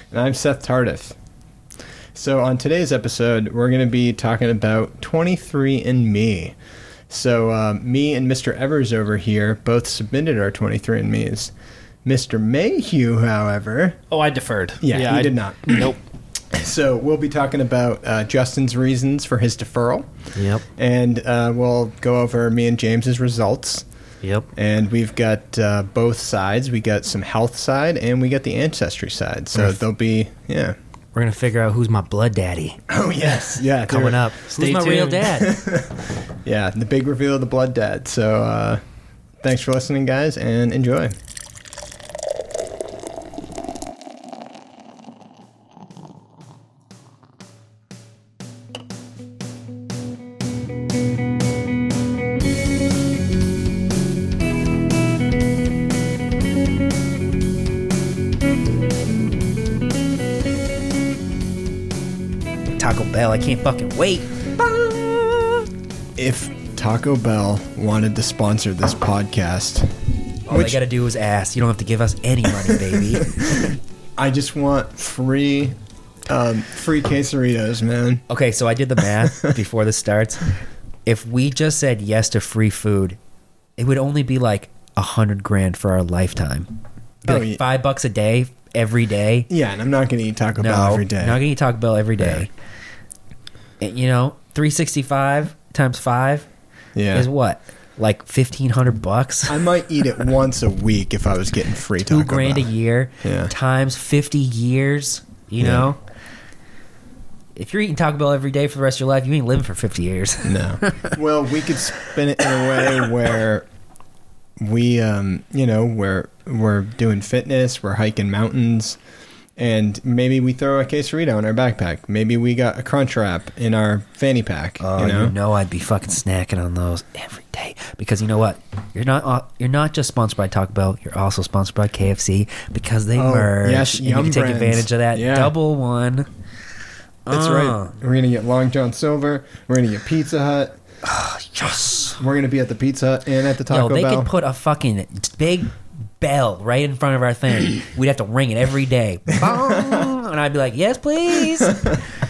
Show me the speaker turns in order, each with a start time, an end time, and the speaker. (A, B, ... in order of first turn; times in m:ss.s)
0:00.1-0:01.2 A
0:02.1-0:06.6 A
0:07.1-0:11.5 A
0:12.0-0:14.0 A
0:14.1-0:15.9 B
0:14.8-0:15.9 A
0:14.9-0:15.3 C
0:16.5-0:20.1 A
0:20.4-0:20.6 C
0:20.7-0:23.8 A
0:24.2-0:24.5 C
0:24.5-0:30.8 A
0:31.1-0:32.8 C
0:32.9-0:34.3 A
0:33.8-0:35.5 C
0:34.6-0:35.3 B
0:35.3-0:38.8 A
0:39.4-0:41.2 A
1:02.7-1:04.4 C
1:04.6-1:04.8 A
1:06.2-1:09.9 A
1:10.5-1:13.3 C
1:10.5-1:10.8 A
1:12.6-1:15.7 A
1:16.2-1:18.2 A
1:18.3-1:20.5 C
1:19.2-1:19.5 A
1:21.0-1:23.2 C
1:23.8-1:26.7 C
1:27.2-1:29.5 C
1:27.2-1:27.6 A
1:29.5-1:31.4 A
1:30.6-1:32.5 C
1:33.8-1:36.5 C
1:36.9-1:37.3 A
1:37.1-1:39.6 C
1:39.5-1:42.7 A
1:42.1-1:46.0 C
1:43.2-1:43.5 A
1:45.6-1:45.9 A
1:47.6-1:51.2 C
1:50.4-1:53.7 A
1:52.5-1:53.0 C
1:54.6-1:59.0 A
1:59.6-2:05.3 A
2:04.8-2:16.3 C
2:13.1-2:15.5 A
2:17.2-2:18.0 C
2:17.3-2:20.8 A
2:21.0-2:22.2 C
2:22.2-2:24.3 A
2:23.7-2:32.0 C
2:29.5-2:30.0 A
2:31.7-2:32.0 A